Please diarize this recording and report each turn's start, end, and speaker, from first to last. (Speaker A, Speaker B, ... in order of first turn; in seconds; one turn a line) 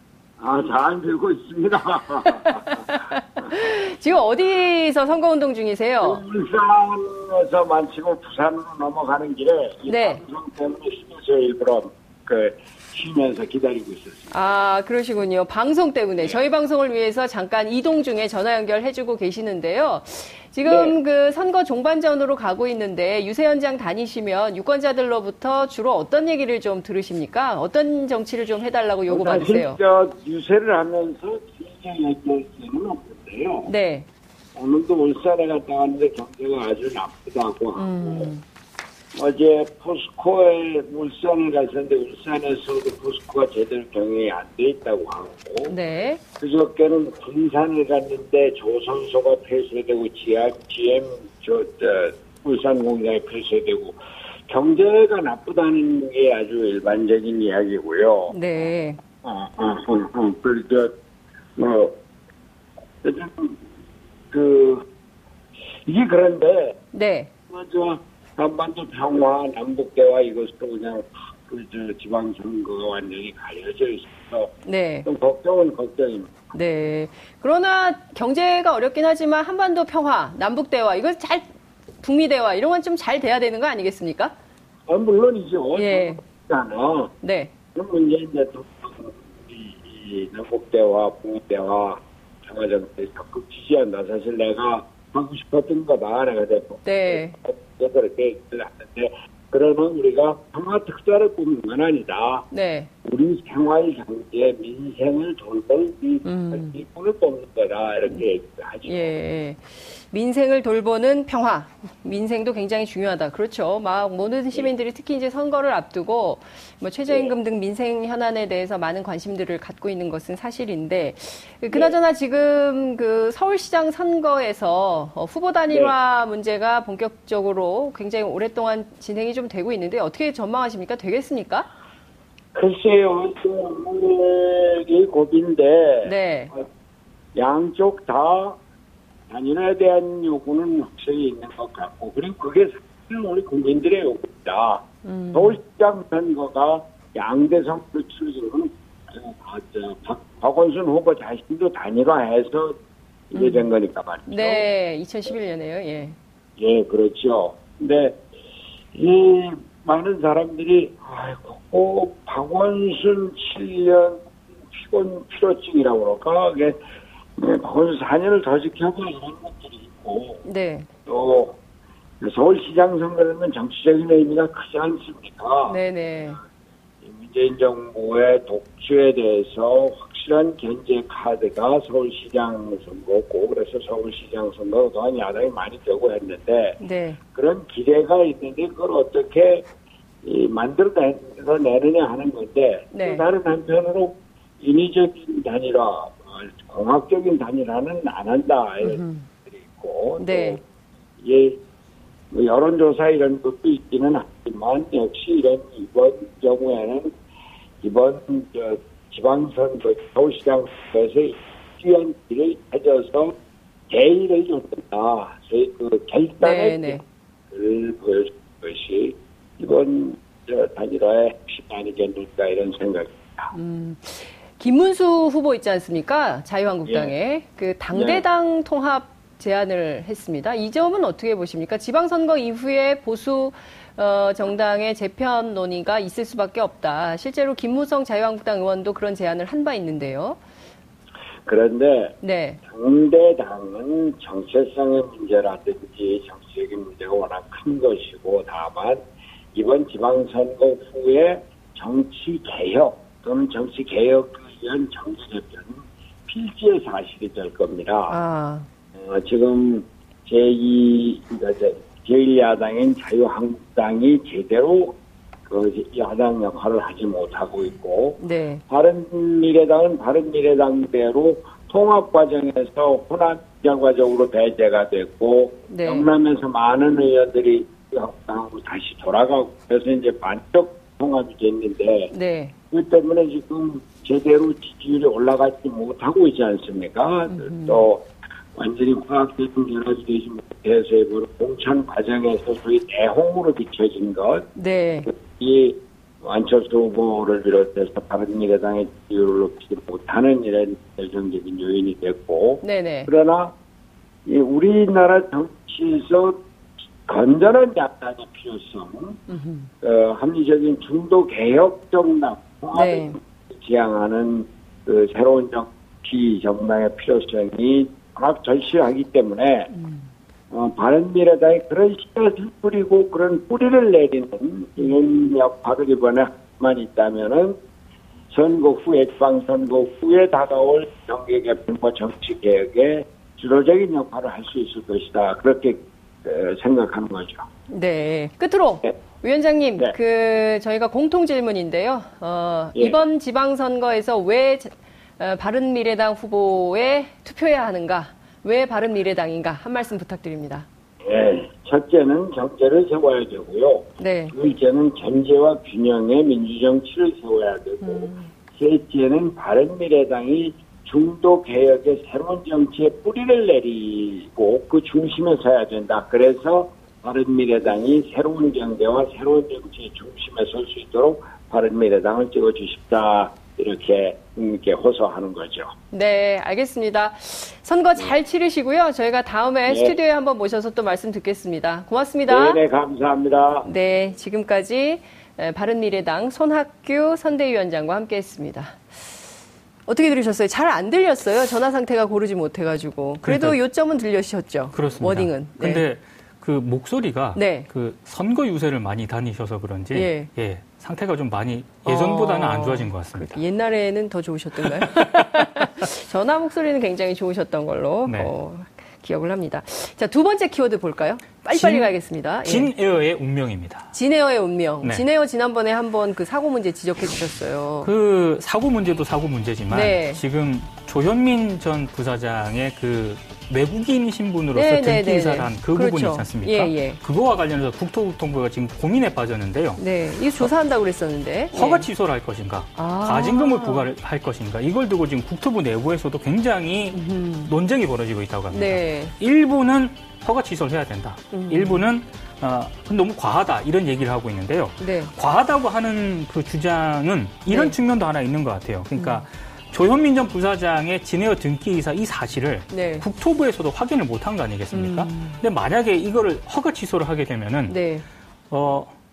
Speaker A: 0.4-2.9
Speaker B: 2.4-6.2
Speaker A: 6.0-14.3
Speaker B: 9.9-10.2
Speaker B: 14.3-29.8
Speaker A: 20.6-21.0
Speaker A: 29.1-33.7
Speaker B: 33.7-34.1
Speaker A: 34.5-38.3
Speaker B: 37.8-38.4
Speaker A: 39.1-45.8
Speaker B: 45.7-46.2
Speaker A: 46.4-58.4
Speaker B: 58.3-59.0
Speaker A: 59.2-61.0
Speaker A: 61.6-62.0
Speaker A: 63.0-63.6
Speaker A: 64.3-64.8
Speaker A: 65.9-66.8
Speaker B: 66.9-67.3
Speaker A: 67.5-74.5
Speaker B: 74.7-75.1
Speaker A: 75.1-76.5
Speaker B: 76.5-81.5
Speaker B: 82.0-84.3
Speaker A: 84.9-87.1
Speaker B: 85.8-86.2
Speaker B: 87.2-87.5
Speaker A: 87.7-102.5
Speaker B: 96.8-97.4
Speaker B: 102.5-102.9
Speaker A: 103.0-109.2
Speaker B: 106.2-106.8
Speaker B: 108.9-131.7
Speaker A: 117.1-117.3
Speaker A: 132.5-136.6
Speaker B: 136.0-136.5
Speaker A: 137.3-138.6
Speaker A: 139.3-152.8
Speaker B: 145.0-145.6
Speaker A: 153.3-154.7
Speaker B: 153.3-153.7
Speaker B: 154.3-156.2
Speaker A: 156.6-158.2
Speaker A: 158.9-166.8
Speaker A: 167.4-170.4
Speaker B: 170.4-170.9
Speaker A: 171.1-171.6
Speaker A: 172.2-175.8
Speaker B: 175.7-176.4
Speaker A: 177.0-186.8
Speaker B: 186.8-187.2
Speaker A: 187.3-189.7
Speaker A: 190.2-200.6
Speaker B: 192.9-193.3
Speaker B: 198.8-199.3
Speaker B: 200.2-200.6
Speaker A: 201.2-201.6
Speaker A: 202.3-207.1
Speaker A: 207.8-213.3
Speaker A: 213.9-223.5
Speaker B: 216.4-217.0
Speaker B: 223.5-240.4
Speaker A: 226.9-227.1
Speaker A: 227.9-228.2
Speaker A: 241.5-258.2
Speaker B: 242.2-242.6
Speaker B: 258.1-258.7
Speaker A: 258.9-265.0
Speaker A: 265.5-282.1
Speaker B: 268.2-268.6
Speaker B: 275.7-276.1
Speaker B: 282.1-282.6
Speaker A: 282.7-294.5
Speaker B: 287.3-287.9
Speaker B: 294.6-295.1
Speaker A: 295.1-303.5
Speaker B: 302.6-303.1
Speaker A: 304.3-306.4
Speaker A: 307.1-309.2
Speaker B: 309.3-309.7
Speaker A: 309.8-319.7
Speaker B: 312.7-313.2
Speaker B: 319.7-320.0
Speaker A: 320.5-327.6
Speaker A: 328.3-337.5
Speaker B: 337.7-350.7
Speaker A: 351.1-375.7
Speaker B: 354.0-354.3
Speaker B: 357.8-358.3
Speaker B: 375.9-382.6
Speaker A: 379.7-379.9
Speaker A: 382.3-383.7
Speaker B: 383.6-388.8
Speaker B: 389.9-395.9
Speaker C: 393.2-393.6
Speaker C: 394.7-403.4
Speaker B: 397.4-397.7
Speaker B: 399.9-400.3
Speaker B: 401.9-412.7
Speaker C: 404.8-405.4
Speaker C: 408.1-408.3
Speaker C: 411.5-411.9
Speaker C: 412.4-413.9
Speaker B: 413.9-417.9
Speaker C: 417.8-429.8
Speaker B: 419.7-420.2
Speaker B: 424.5-427.0
Speaker B: 429.8-431.9
Speaker C: 431.5-457.8
Speaker B: 432.8-433.9
Speaker B: 436.9-437.5
Speaker B: 438.5-439.1
Speaker B: 441.3-441.9
Speaker B: 444.8-445.1
Speaker B: 447.5-447.8
Speaker B: 449.0-449.3
Speaker B: 452.7-453.1
Speaker B: 454.7-455.4
Speaker B: 457.7-458.1
Speaker C: 458.5-458.9